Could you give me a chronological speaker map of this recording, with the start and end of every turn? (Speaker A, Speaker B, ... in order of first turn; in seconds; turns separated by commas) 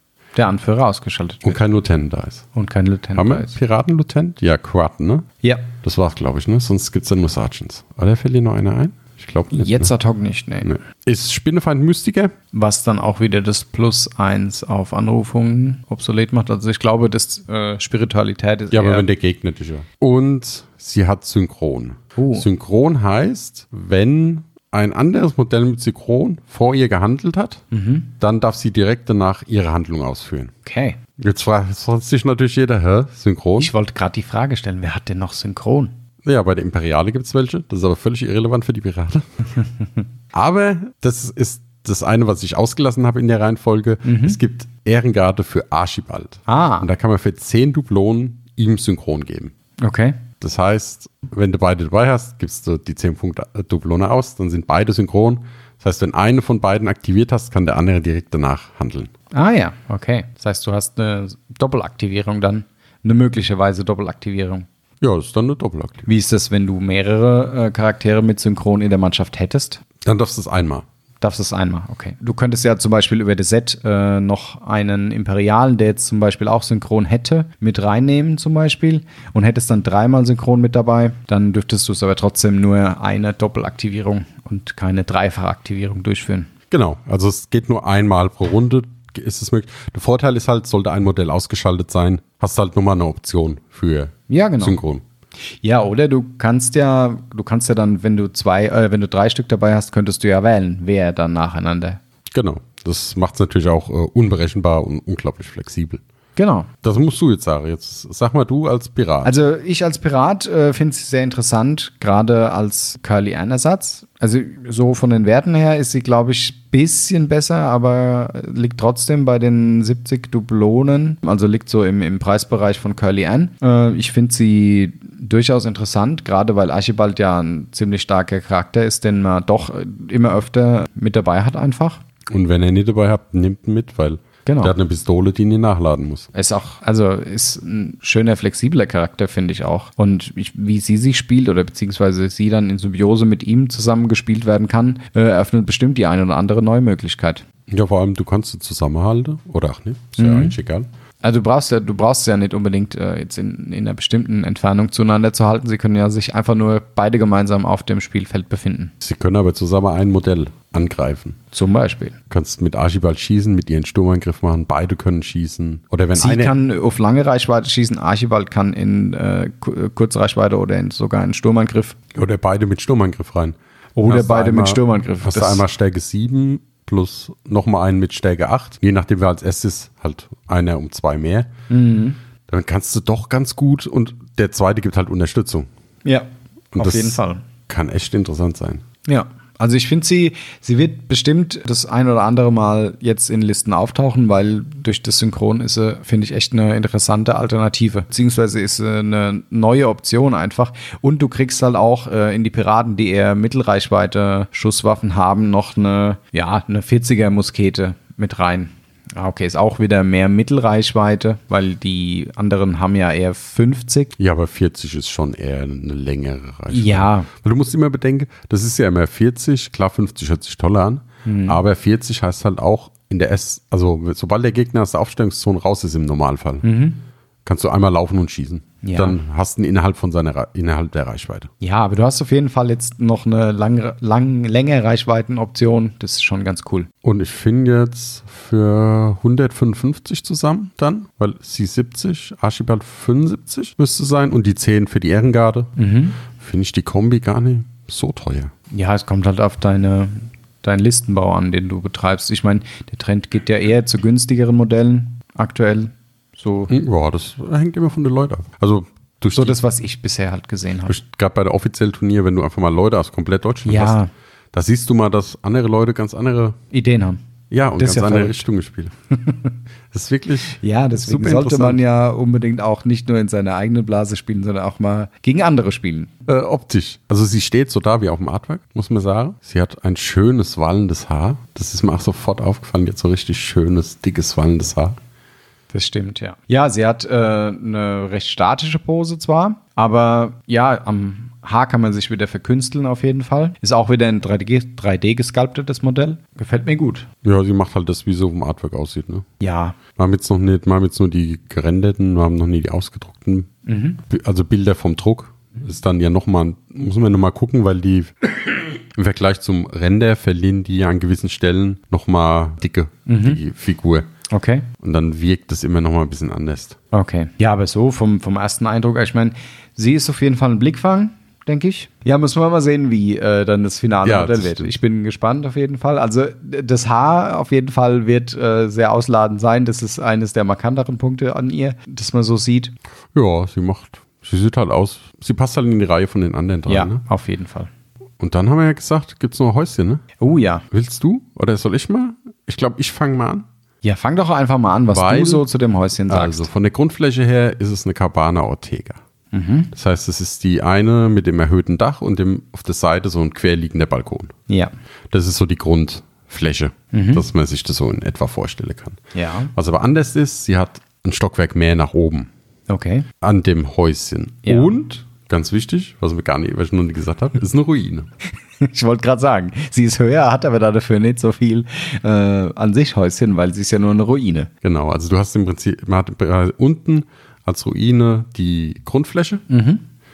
Speaker A: 0.3-1.6, Speaker B: 1.4-2.5, Speaker A: 2.5-3.5, Speaker B: 3.1-9.9, Speaker A: 5.4-5.7, Speaker A: 9.5-10.7, Speaker B: 10.6-12.3, Speaker A: 12.5-19.1, Speaker B: 18.7-27.6, Speaker A: 22.1-22.4, Speaker A: 27.7-28.1, Speaker B: 28.2-30.5, Speaker A: 30.6-31.0, Speaker B: 31.2-33.7, Speaker A: 33.6-35.9, Speaker B: 36.2-39.2, Speaker B: 40.3-49.5, Speaker A: 44.0-44.4, Speaker A: 46.5-46.9, Speaker A: 49.8-50.2, Speaker B: 50.4-59.1, Speaker A: 59.3-64.7, Speaker B: 65.0-66.1, Speaker A: 66.0-69.8, Speaker B: 70.0-70.8, Speaker A: 71.2-86.5, Speaker B: 86.7-95.0, Speaker A: 94.3-94.8, Speaker A: 95.6-102.0, Speaker B: 102.3-106.0, Speaker A: 106.3-106.7, Speaker B: 106.8-109.3, Speaker A: 109.2-132.0, Speaker B: 132.3-136.3, Speaker A: 134.4-134.7, Speaker A: 136.3-147.4, Speaker B: 147.7-150.9, Speaker A: 150.2-150.6, Speaker A: 151.2-158.9, Speaker B: 159.0-161.4, Speaker A: 161.5-162.2, Speaker B: 162.3-166.5, Speaker A: 166.1-172.0, Speaker B: 172.1-173.6, Speaker A: 173.9-175.6, Speaker B: 174.1-181.5, Speaker A: 181.7-182.2, Speaker B: 182.5-185.7, Speaker A: 186.0-187.4, Speaker B: 186.7-188.8, Speaker A: 189.1-214.1, Speaker B: 214.2-226.6, Speaker A: 216.7-217.3, Speaker A: 221.2-221.6, Speaker A: 226.6-227.0, Speaker B: 227.4-231.5, Speaker A: 228.8-229.2, Speaker A: 231.6-236.9, Speaker B: 237.0-245.7, Speaker A: 245.8-246.2, Speaker B: 246.3-248.5, Speaker A: 248.7-256.7, Speaker B: 256.7-259.6, Speaker A: 259.3-260.9, Speaker B: 260.9-264.0, Speaker A: 263.6-264.1, Speaker B: 264.5-266.6, Speaker A: 266.7-267.2, Speaker B: 267.5-268.9, Speaker A: 267.8-268.4, Speaker A: 269.2-269.5, Speaker B: 269.9-271.8, Speaker A: 270.6-276.1, Speaker B: 276.3-285.0, Speaker A: 285.7-297.1, Speaker B: 297.2-299.3, Speaker A: 299.4-299.8, Speaker B: 299.9-303.5, Speaker A: 303.6-304.0, Speaker B: 304.0-314.1, Speaker A: 313.1-313.4, Speaker A: 314.3-314.7, Speaker B: 314.8-316.8, Speaker A: 316.9-332.7, Speaker B: 324.0-324.7, Speaker B: 333.1-337.0, Speaker A: 336.7-337.7, Speaker B: 338.2-340.0, Speaker A: 340.2-340.6, Speaker B: 340.7-343.4, Speaker A: 343.8-346.5, Speaker B: 344.9-345.5, Speaker B: 346.1-349.0, Speaker A: 349.3-349.7, Speaker B: 349.7-354.3, Speaker B: 355.1-359.0, Speaker A: 356.9-357.2, Speaker A: 359.1-359.5, Speaker B: 359.5-362.3, Speaker A: 362.7-363.1, Speaker B: 363.2-368.1, Speaker A: 364.4-364.7, Speaker A: 368.6-374.5, Speaker B: 374.6-379.4, Speaker A: 379.5-379.8